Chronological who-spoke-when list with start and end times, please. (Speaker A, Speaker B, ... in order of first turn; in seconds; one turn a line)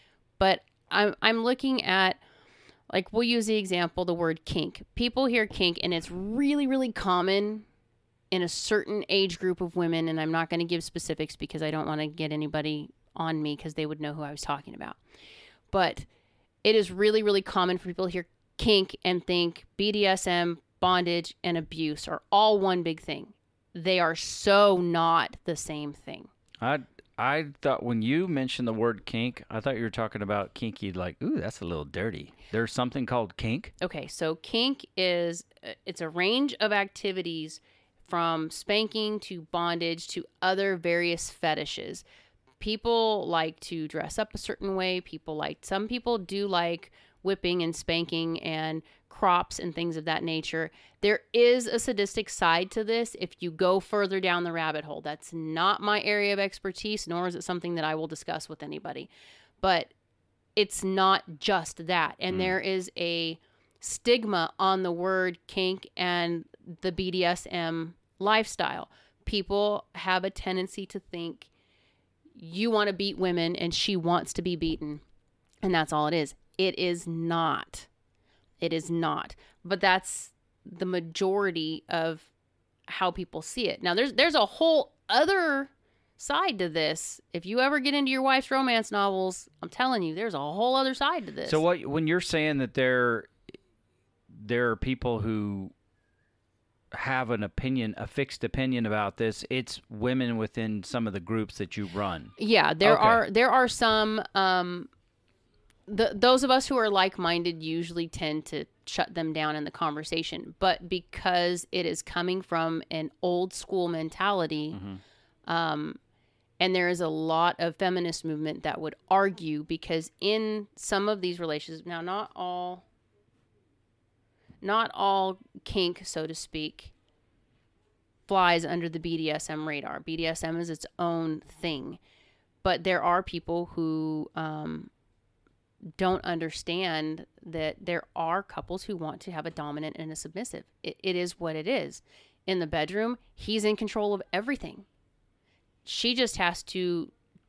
Speaker A: 0.4-2.2
Speaker A: 2.9-7.7
Speaker A: 8.3-15.0
Speaker A: 15.7-16.1
Speaker A: 16.6-26.3
Speaker B: 26.6-33.7
Speaker A: 33.8-42.0
Speaker A: 42.6-59.1
Speaker A: 59.6-59.9
Speaker A: 60.6-71.5
Speaker A: 72.3-75.0
Speaker A: 75.6-77.9
Speaker A: 78.6-82.3
Speaker A: 82.9-91.6
Speaker B: 91.5-93.3
Speaker B: 94.3-95.7
Speaker B: 96.9-103.2
Speaker A: 102.4-104.9
Speaker A: 105.9-114.8
Speaker B: 114.7-115.0
Speaker A: 115.5-116.0
Speaker A: 116.6-122.8
Speaker A: 124.6-126.9
Speaker A: 128.3-132.0
Speaker A: 132.6-134.9
Speaker A: 136.0-144.9
Speaker A: 145.8-147.1